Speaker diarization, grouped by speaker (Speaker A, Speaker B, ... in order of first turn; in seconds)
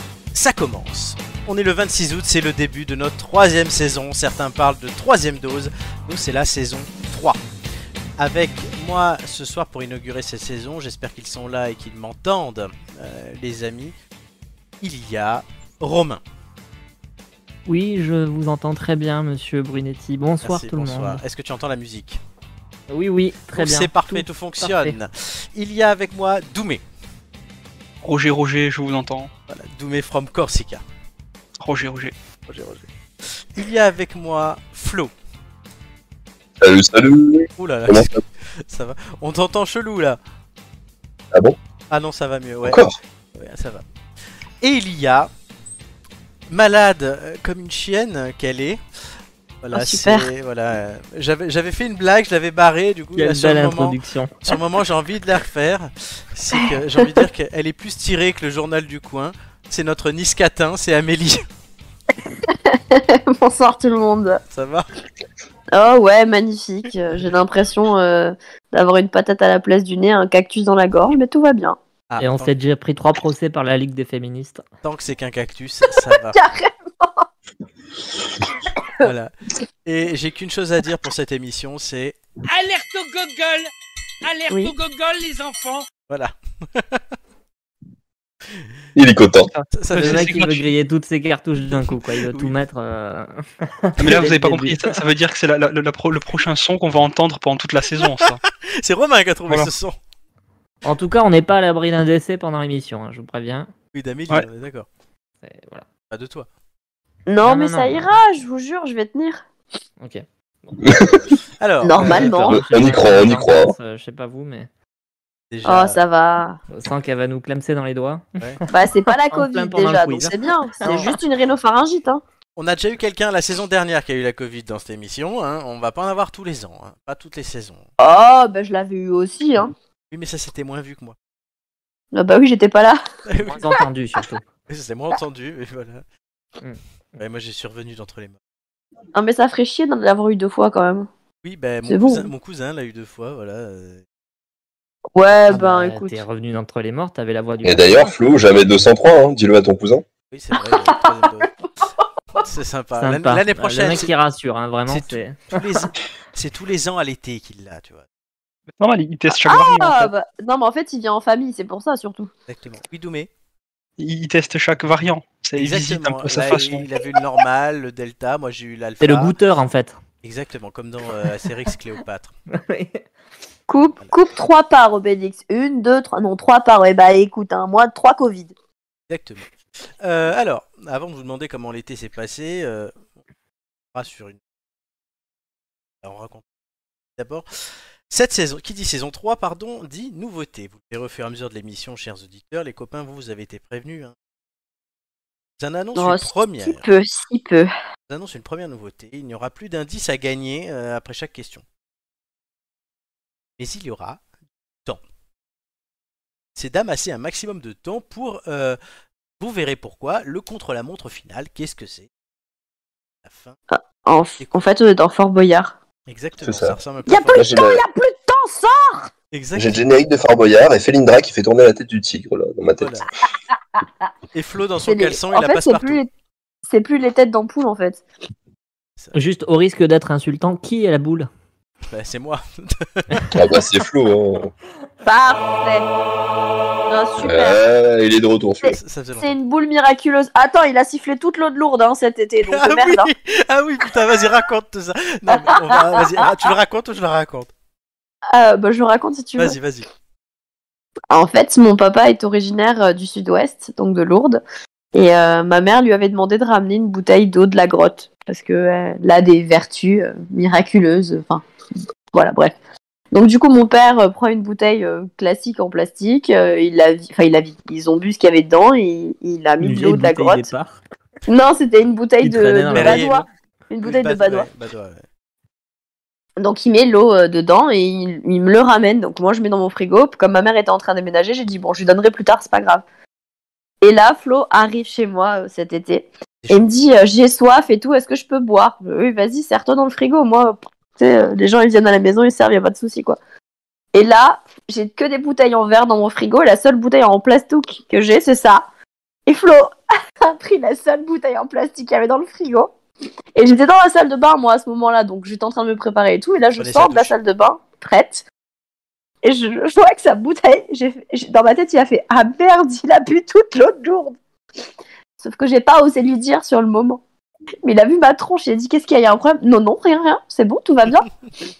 Speaker A: 0.3-7.4, 8.2-13.9, 14.8-16.2, 20.4-22.2, 23.5-26.8, 29.5-30.8, 32.5-32.9, 33.4-35.1, 37.6-40.2, 41.9-42.8, 43.3-43.8, 44.6-45.3, 46.5-48.8, 49.6-61.4, 64.5-64.9, 72.1-72.5, 74.8-76.4, 79.0-79.3, 79.8-82.2, 86.1-87.0, 89.7-90.4, 98.0-100.0, 103.9-104.9, 106.1-106.5, 111.6-112.5, 115.5-116.0, 122.5-127.8, 130.1-131.2, 133.2-133.8, 134.7-136.0, 137.2-138.3, 141.4-144.0, 150.3-151.5, 152.4-154.1, 154.9-158.0, 162.5-163.3, 165.6-169.3, 170.2-172.3, 179.1-179.5, 180.0-182.9, 183.9-184.4, 186.0-186.4, 187.2-194.1, 195.6-196.9, 198.1-201.6, 203.6-204.2, 206.5-208.8, 209.4-212.1, 213.2-213.6, 216.1-217.6, 219.3-219.8, 222.8-223.1, 224.3-226.0, 231.9-233.3, 238.7-239.3, 242.4-247.5, 249.4-249.9, 272.7-273.2, 273.8-275.0, 286.4-286.7, 306.6-307.1
Speaker B: 17.7-21.2, 22.9-25.0, 53.1-54.3, 72.2-74.6, 89.9-95.0, 100.8-103.7, 105.4-105.8, 107.4-108.1, 110.0-111.0, 112.0-114.7, 116.7-121.2, 133.4-134.5, 136.6-137.2, 145.5-148.8, 153.0-155.9, 169.0-170.0, 172.5-173.0, 229.1-231.3, 269.6-270.8, 272.2-273.2
Speaker C: 28.0-29.3, 31.6-32.1, 89.5-90.6, 94.0-98.4, 158.8-160.1, 164.0-166.9
Speaker D: 36.6-38.2, 42.6-43.0, 89.0-89.5, 110.8-111.3, 112.5-113.7, 147.6-150.1, 216.4-216.8, 217.3-217.8, 219.6-223.0, 233.3-234.5, 237.2-238.8
Speaker E: 49.7-50.3, 56.5-57.1, 62.5-64.4, 65.7-71.8, 76.0-77.2, 84.5-84.7, 107.3-109.4, 111.8-112.6, 115.6-116.6, 118.7-122.2, 128.0-129.7, 132.1-133.0, 139.1-141.1, 141.9-142.3, 145.1-146.2, 150.5-151.9, 159.3-162.3, 173.7-178.5, 195.9-197.7, 213.7-215.8, 217.1-219.1, 223.7-224.1, 224.8-226.1, 226.7-228.0, 235.0-235.9, 236.9-237.6, 238.6-243.1, 245.3-246.2, 248.3-249.6, 251.1-254.4, 254.9-261.4, 262.1-262.6, 263.1-270.5, 271.2-274.5, 276.4-282.8, 283.8-293.2, 293.9-298.6, 299.3-302.7, 303.4-308.2, 309.2-314.2, 315.2-317.0, 317.6-321.1
Speaker F: 82.5-83.7, 84.2-85.8